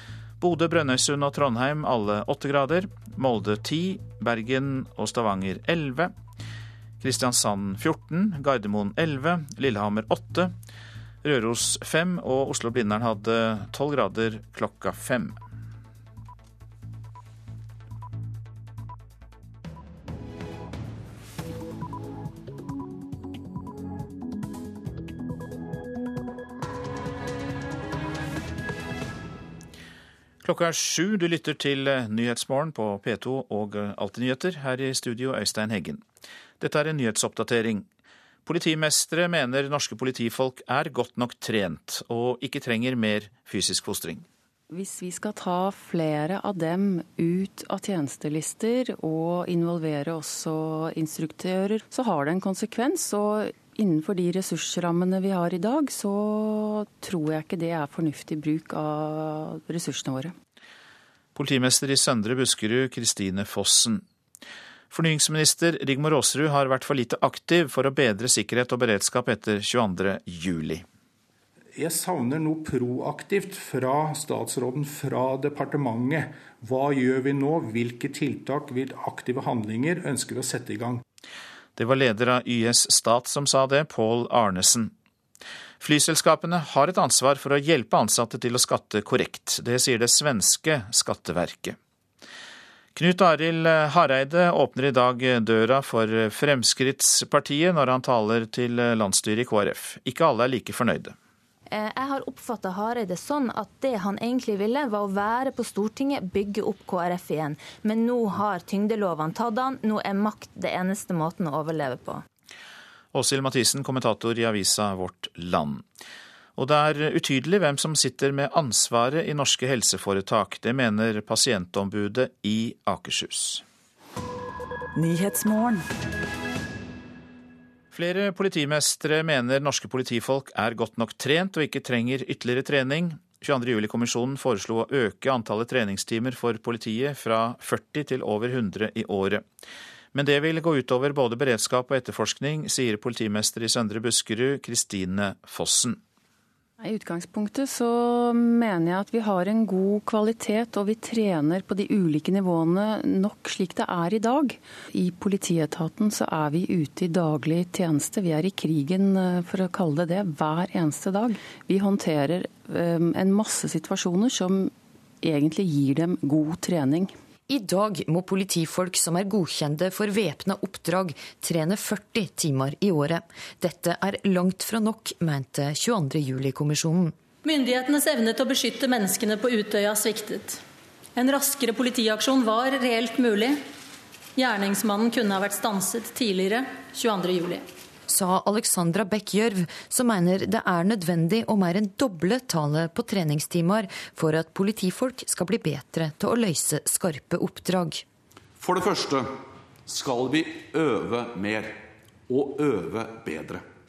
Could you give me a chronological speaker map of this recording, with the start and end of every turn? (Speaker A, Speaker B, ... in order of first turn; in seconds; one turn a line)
Speaker A: 0.4-6.1
Speaker A: 7.0-10.5
Speaker A: 11.2-15.4
Speaker A: 30.4-36.0
Speaker A: 36.6-37.9
Speaker A: 38.5-44.2
Speaker B: 44.7-60.3
Speaker A: 61.3-64.0
Speaker A: 64.9-70.8
Speaker C: 71.7-81.0
Speaker A: 81.8-84.9
Speaker A: 85.8-91.8
Speaker A: 92.9-101.1
Speaker D: 101.7-112.2
Speaker A: 113.1-115.8
Speaker A: 116.6-123.6
Speaker A: 127.9-139.4
Speaker A: 140.1-146.0
Speaker B: 146.8-167.1
Speaker E: 167.5-177.1
Speaker F: 177.4-180.6
Speaker F: 181.2-183.6
Speaker F: 184.4-187.6
Speaker E: 188.1-198.0
Speaker G: 198.6-199.3
Speaker G: 199.9-203.6